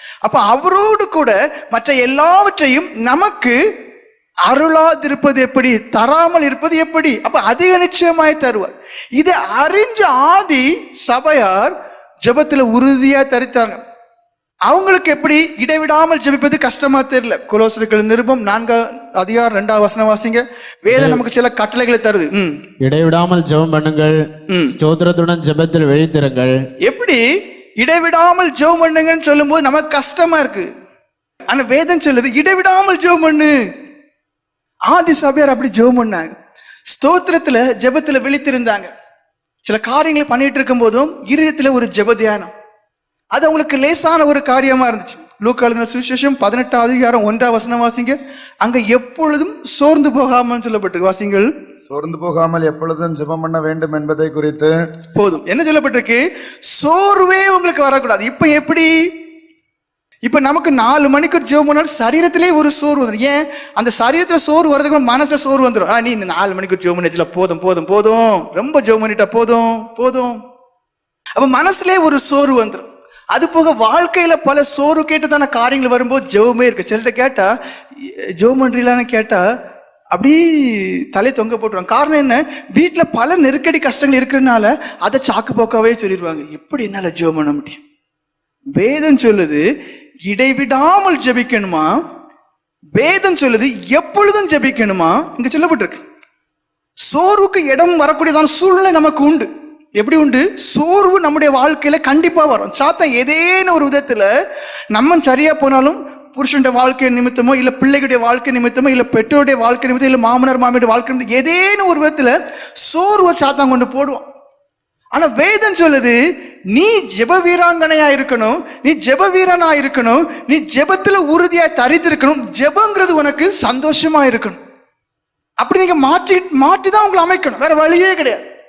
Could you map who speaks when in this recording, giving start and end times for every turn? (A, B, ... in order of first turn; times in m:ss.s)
0:00.2-0:03.6 A
0:04.5-0:13.8 A
0:14.7-0:22.5 A
0:20.9-0:21.2 B
0:22.8-0:24.2 B
0:24.5-0:24.7 A
0:24.7-0:26.5 B
0:26.8-0:27.2 A
0:27.8-0:30.7 A
0:31.5-0:33.6 A
0:34.9-0:36.3 A
0:36.9-0:38.9 A
0:39.6-0:42.5 A
0:43.3-0:51.5 A
0:51.9-0:54.7 C
0:55.1-0:58.9 A
1:00.2-1:10.4 A
1:11.4-1:17.5 A
1:18.4-1:19.4 A
1:20.1-1:27.8 A
1:28.8-1:29.6 A
1:30.3-1:31.9 A
1:33.0-1:36.0 A
1:37.1-1:44.3 A
1:44.9-1:54.2 A
1:55.1-1:56.2 A
1:56.7-2:04.6 A
2:05.6-2:08.4 A